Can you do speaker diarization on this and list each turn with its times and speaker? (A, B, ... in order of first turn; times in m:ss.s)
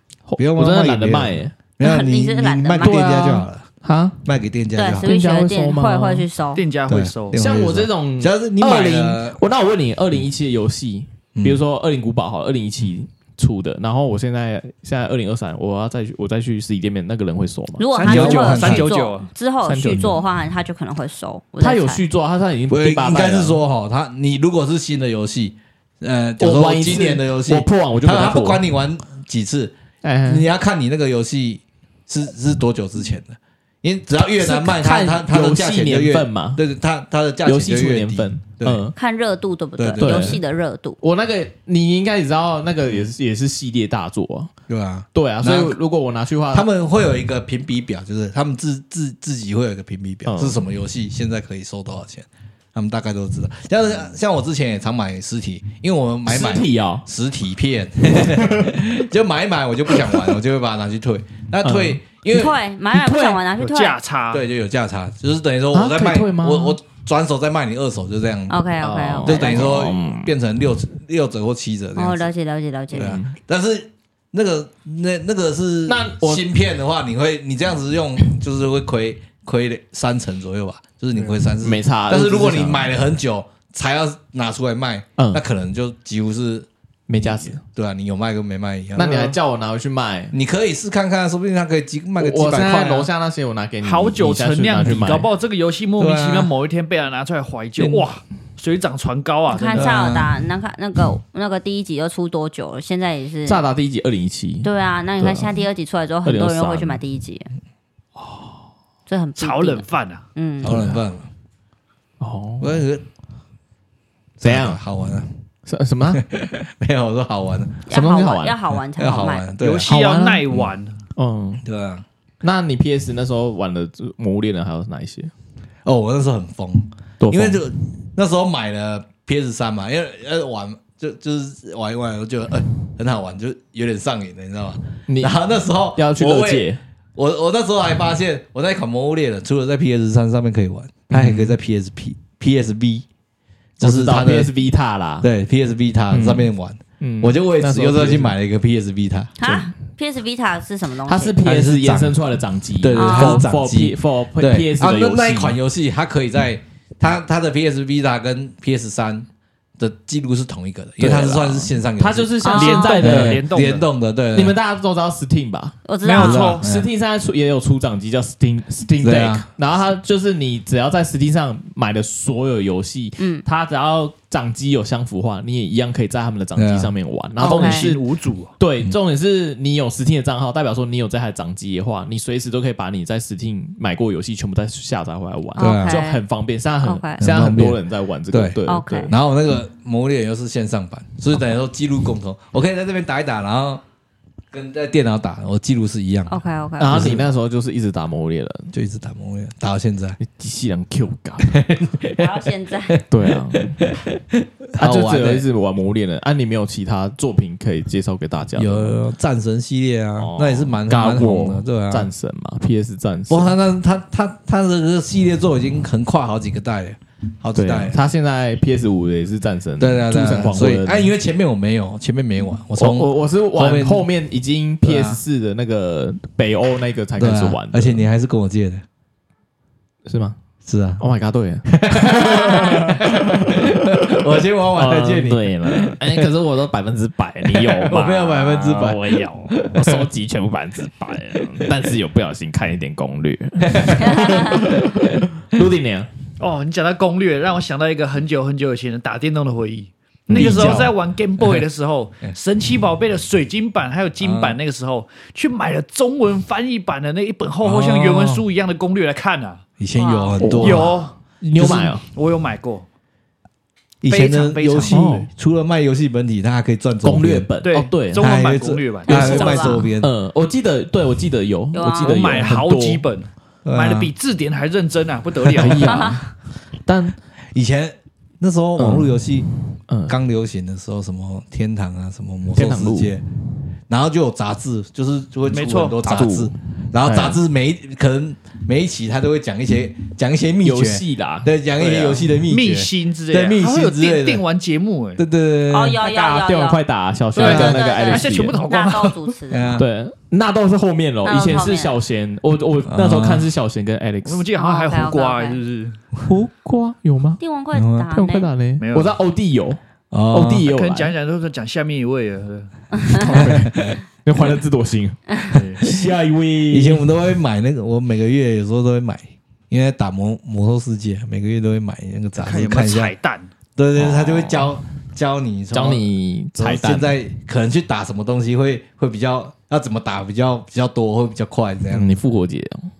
0:00.2-0:01.6 A
0:00.4-0:03.7 B
0:01.8-0:03.0 C
0:02.8-0:04.2 A
0:04.2-0:05.1 B
0:04.8-0:06.6 C
0:05.0-0:06.3 A
0:06.5-0:07.4 D
0:06.9-0:09.4 B
0:07.3-0:17.8 A
0:11.3-0:11.6 B
0:17.8-0:22.0 C
0:17.9-0:19.3 D
0:18.0-0:18.9 B
0:19.6-0:20.2 A
0:21.6-0:23.6 A
0:22.7-0:29.7 B
0:26.4-0:28.6 A
0:30.0-0:30.4 A
0:30.2-0:38.9 B
0:34.4-0:36.6 A
0:37.4-0:38.9 A
0:39.0-0:41.0 C
0:39.8-0:40.4 B
0:40.0-0:40.4 A
0:41.0-0:44.5 A
0:42.9-0:43.1 B
0:44.7-0:45.8 B
0:45.1-0:46.7 A
0:46.5-1:02.5 B
0:50.2-0:50.6 A
0:56.3-0:57.0 A
0:58.3-0:58.7 A
1:01.6-1:02.0 A
1:02.3-1:04.0 C
1:02.9-1:03.4 A
1:03.6-1:04.4 D
1:04.3-1:08.6 B
1:05.7-1:06.8 A
1:08.5-1:09.6 C
1:08.8-1:09.2 D
1:09.0-1:10.3 A
1:09.2-1:12.3 B
1:12.0-1:13.2 C
1:12.9-1:29.4 B
1:12.9-1:13.3 A
1:15.9-1:16.4 A
1:21.2-1:23.0 A
1:25.2-1:25.4 A
1:27.1-1:27.6 A
1:29.0-1:30.3 A
1:30.3-1:33.1 B
1:32.2-1:35.3 A
1:33.8-1:39.9 D
1:36.0-1:36.5 B
1:37.8-1:38.0 A
1:39.5-1:43.6 C
1:39.7-1:40.3 B
1:43.4-1:44.7 A
1:44.6-1:47.5 C
1:45.2-1:45.5 A
1:46.2-1:47.0 A
1:48.2-1:48.5 A
1:49.1-1:50.8 C
1:49.4-1:50.2 D
1:50.6-1:51.3 B
1:50.6-1:51.0 A
1:52.2-1:52.8 A
1:52.6-1:53.0 B
1:54.4-1:54.8 A
1:54.4-1:55.3 B
1:55.6-1:56.2 A
1:56.1-1:57.7 B
1:57.9-1:59.5 C
1:57.9-1:58.6 A
1:58.7-1:59.9 B
1:59.6-2:01.0 D
1:59.8-2:00.4 A
2:01.2-2:01.6 A
2:01.6-2:02.0 B
2:02.4-2:05.3 A
2:05.8-2:23.0 B
2:07.2-2:07.6 A
2:15.1-2:15.4 A
2:15.9-2:16.8 A
2:21.1-2:21.5 A
2:23.8-2:24.5 B
2:23.8-2:25.3 A
2:25.2-2:29.4 B
2:26.1-2:28.3 A
2:29.4-2:31.4 C
2:31.1-2:35.6 A
2:31.4-2:39.3 B
2:32.9-2:33.4 C
2:39.8-2:42.4 B
2:41.0-2:43.4 A
2:42.4-2:43.0 C
2:42.5-2:43.8 D
2:43.0-2:44.6 B
2:44.3-2:45.8 A
2:45.8-2:46.6 C
2:46.0-2:46.6 D
2:46.2-2:46.9 B
2:46.6-2:58.0 A
2:49.0-2:49.4 B
2:53.2-2:53.4 C
2:56.6-2:56.9 B
2:57.4-2:57.9 C
2:57.4-2:58.5 D
2:58.6-3:09.1 A
3:05.6-3:06.0 B
3:05.6-3:06.2 C
3:06.8-3:07.2 C
3:07.2-3:07.8 B
3:08.3-3:13.8 B
3:08.7-3:09.1 C
3:14.5-3:17.3 B
3:16.3-3:17.0 C
3:16.8-3:18.7 A
3:18.7-3:20.2 B
3:20.2-3:21.5 A
3:21.4-3:25.4 B
3:22.2-3:23.0 C
3:23.1-3:23.8 A
3:24.8-3:29.0 A
3:28.6-3:32.1 B
3:30.2-3:33.5 A
3:33.3-3:38.0 B
3:37.5-3:41.1 A
3:39.8-3:44.1 B
3:42.8-3:48.0 A
3:44.8-3:45.2 B
3:47.2-3:48.8 B
3:50.0-3:50.4 A
3:50.6-3:51.0 B
3:51.0-4:06.1 A
3:51.7-3:56.3 B
3:57.4-4:00.1 B
4:01.3-4:01.8 B
4:03.6-4:05.6 B
4:04.0-4:04.6 C
4:06.4-4:19.6 D
4:10.3-4:11.6 B
4:10.3-4:10.9 A
4:14.2-4:14.6 B
4:17.6-4:18.4 B
4:19.8-4:20.9 B
4:19.9-4:20.5 C
4:20.4-4:22.0 A
4:20.6-4:22.8 D
4:21.6-4:21.9 B
4:24.0-4:27.5 B
4:24.1-4:25.2 D
4:24.8-4:25.3 A
4:27.0-4:28.3 A
4:27.6-4:29.7 D
4:28.2-4:30.1 B
4:29.1-4:29.8 C
4:29.1-4:33.0 A
4:31.7-4:32.2 C
4:32.0-4:36.1 D
4:33.6-4:34.1 B
4:35.6-4:36.3 A
4:35.6-4:35.9 B
4:35.8-4:36.2 C
4:36.8-4:37.2 A
4:37.5-4:39.5 B
4:38.8-4:39.2 A
4:39.9-4:40.1 A
4:40.1-4:43.2 B
4:42.5-4:43.1 A
4:43.9-4:54.4 B
4:45.5-4:46.0 D
4:46.0-4:47.4 A
4:50.6-4:52.2 A
4:52.0-4:55.2 D
4:55.2-4:56.0 B
4:55.7-4:56.8 C
4:55.9-4:58.6 A
4:57.3-4:59.8 C
4:57.4-4:57.9 B
4:57.4-4:59.2 D
4:59.5-4:59.9 B
4:59.8-5:04.5 A
5:01.2-5:01.9 C
5:02.9-5:03.5 B
5:04.2-5:06.0 D
5:04.6-5:05.6 C
5:06.2-5:07.4 A
5:07.4-5:08.5 C
5:07.7-5:08.1 B
5:08.1-5:09.8 A
5:08.8-5:09.2 D
5:10.1-5:10.7 B
5:10.3-5:11.1 A
5:10.6-5:13.7 D
5:12.9-5:13.3 C
5:13.2-5:17.0 A
5:13.2-5:14.0 B
5:15.5-5:15.8 D
5:16.7-5:23.1 B
5:22.4-5:23.5 D
5:23.8-5:26.0 B
5:23.9-5:24.7 A
5:25.7-5:27.2 A
5:26.6-5:32.1 B
5:31.9-5:32.9 A